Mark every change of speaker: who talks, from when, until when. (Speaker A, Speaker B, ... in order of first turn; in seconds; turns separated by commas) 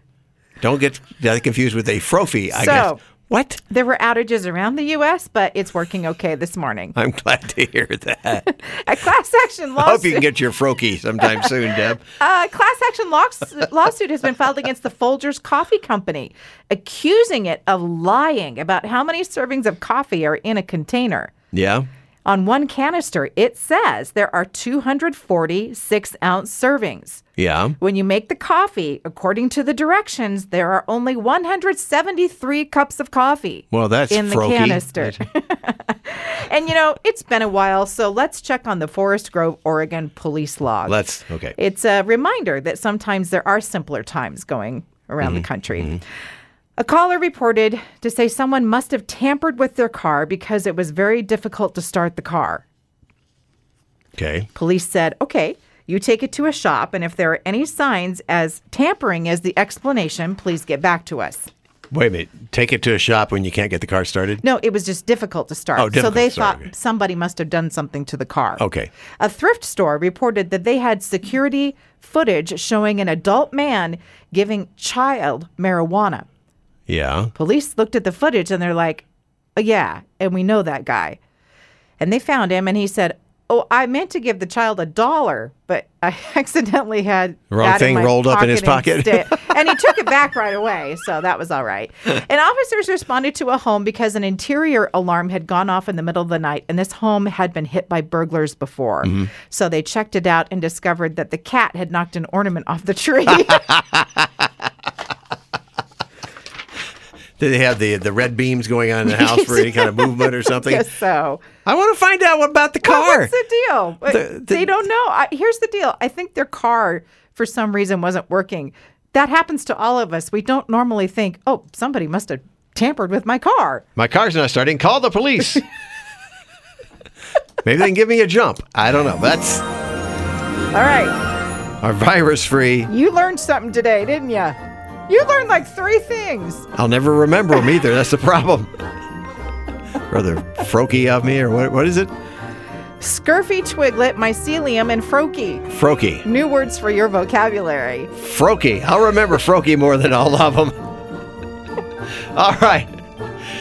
Speaker A: 0.6-3.6, Speaker B: 2.5-3.0, Speaker B: 3.7-6.9, Speaker A: 7.0-8.5, Speaker B: 8.5-10.3, Speaker A: 9.8-12.0, Speaker B: 11.2-11.5, Speaker B: 12.2-21.3, Speaker A: 21.5-21.9, Speaker B: 22.2-27.2, Speaker A: 27.4-27.8, Speaker B: 27.8-41.0, Speaker A: 33.7-35.2, Speaker A: 40.9-41.5, Speaker B: 41.5-46.0, Speaker A: 45.2-46.0, Speaker B: 46.8-52.6, Speaker A: 54.2-54.5, Speaker B: 54.5-61.5, Speaker A: 61.9-64.4, Speaker B: 64.4-68.6, Speaker A: 65.8-66.7, Speaker A: 68.6-68.9, Speaker B: 69.2-76.2, Speaker A: 76.9-77.3, Speaker B: 77.3-79.0, Speaker B: 79.5-81.2, Speaker B: 82.0-103.9, Speaker A: 87.5-89.6, Speaker A: 107.4-110.8, Speaker B: 109.0-111.4, Speaker A: 111.6-113.3, Speaker B: 112.8-123.8, Speaker A: 114.1-114.7, Speaker A: 124.0-125.6, Speaker A: 127.6-129.7, Speaker B: 130.7-131.2, Speaker A: 131.8-132.9, Speaker B: 132.9-134.6, Speaker B: 135.1-136.7, Speaker A: 136.7-138.7, Speaker A: 140.1-142.1, Speaker B: 143.0-145.7, Speaker A: 145.7-146.2, Speaker B: 146.2-148.1, Speaker A: 148.1-150.8, Speaker A: 152.3-152.9